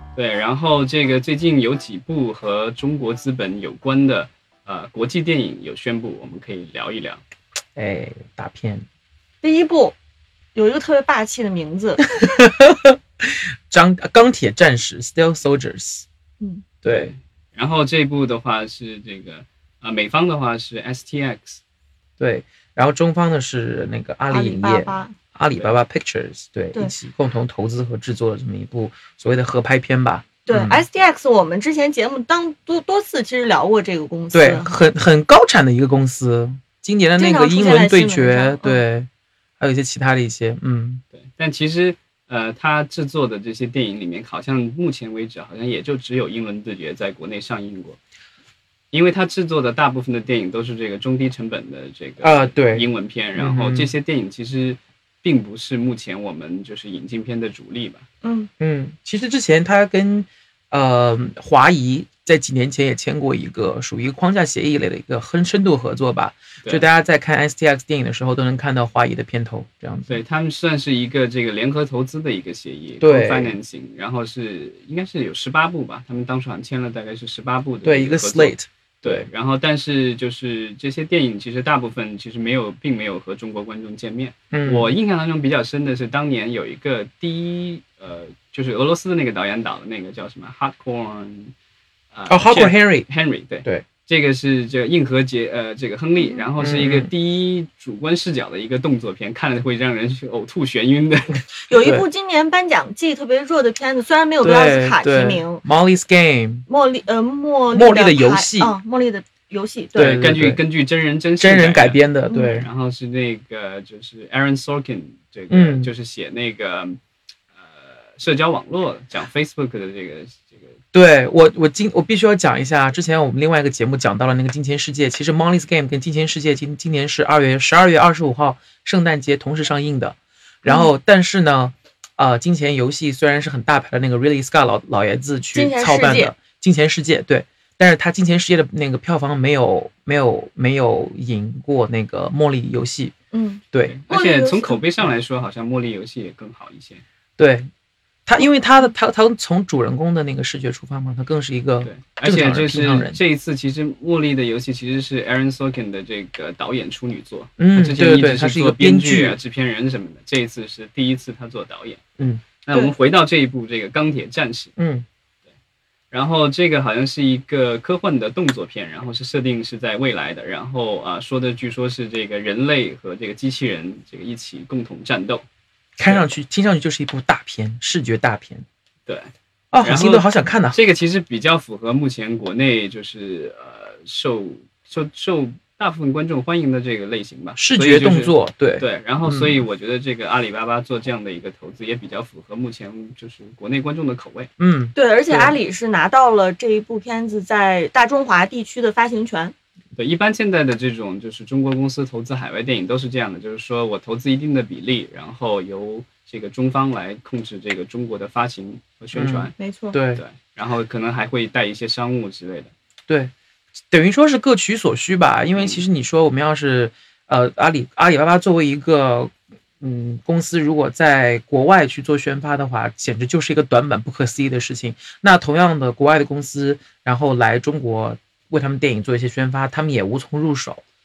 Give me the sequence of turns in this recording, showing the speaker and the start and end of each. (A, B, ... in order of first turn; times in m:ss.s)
0:00.2-0:07.2 A
0:07.7-0:08.8 B
0:09.4-0:09.9 C
0:10.5-0:12.1 C
0:12.2-0:16.0 B
0:16.4-0:16.6 C
0:16.8-0:21.6 A
0:16.8-0:17.1 B
0:22.2-0:30.8 B
0:24.3-0:25.1 C
0:30.4-0:34.7 C
0:34.3-0:39.1 B
0:37.2-0:38.8 C
0:39.6-0:41.0 B
0:41.1-0:48.0 A
0:48.9-0:58.0 A
0:52.2-0:53.9 B
0:58.2-0:58.5 C
0:58.6-1:10.2 B
1:10.1-1:31.5 A
1:13.0-1:13.6 B
1:17.8-1:19.3 B
1:24.5-1:24.9 B
1:32.1-1:41.5 A
1:32.3-1:33.1 B
1:36.2-1:36.5 C
1:36.6-1:37.1 B
1:41.7-1:45.6 C
1:41.7-1:42.0 B
1:44.4-1:46.7 B
1:46.7-1:50.2 C
1:47.7-1:48.8 B
1:49.9-1:50.6 B
1:50.0-1:57.0 A
1:51.4-1:52.7 B
1:55.5-1:55.9 B
1:57.6-2:00.7 A
2:00.9-2:23.1 B
2:10.6-2:10.9 C
2:15.5-2:16.3 C
2:23.3-2:24.8 C
2:23.8-2:27.0 A
2:27.4-2:27.7 B
2:28.2-2:33.2 B
2:31.8-2:42.0 A
2:37.6-2:39.4 B
2:42.2-2:42.4 B
2:42.6-2:44.7 A
2:44.8-2:45.0 B
2:46.1-2:55.4 A
2:56.0-2:58.6 B
2:59.7-3:00.8 B
2:59.8-3:14.5 A
3:07.6-3:09.6 B
3:14.6-3:15.5 B
3:14.9-3:19.5 C
3:20.0-3:29.5 A
3:29.1-3:30.2 B
3:29.6-3:30.0 C
3:30.1-3:32.7 A
3:33.9-3:50.8 B
3:35.6-3:35.8 A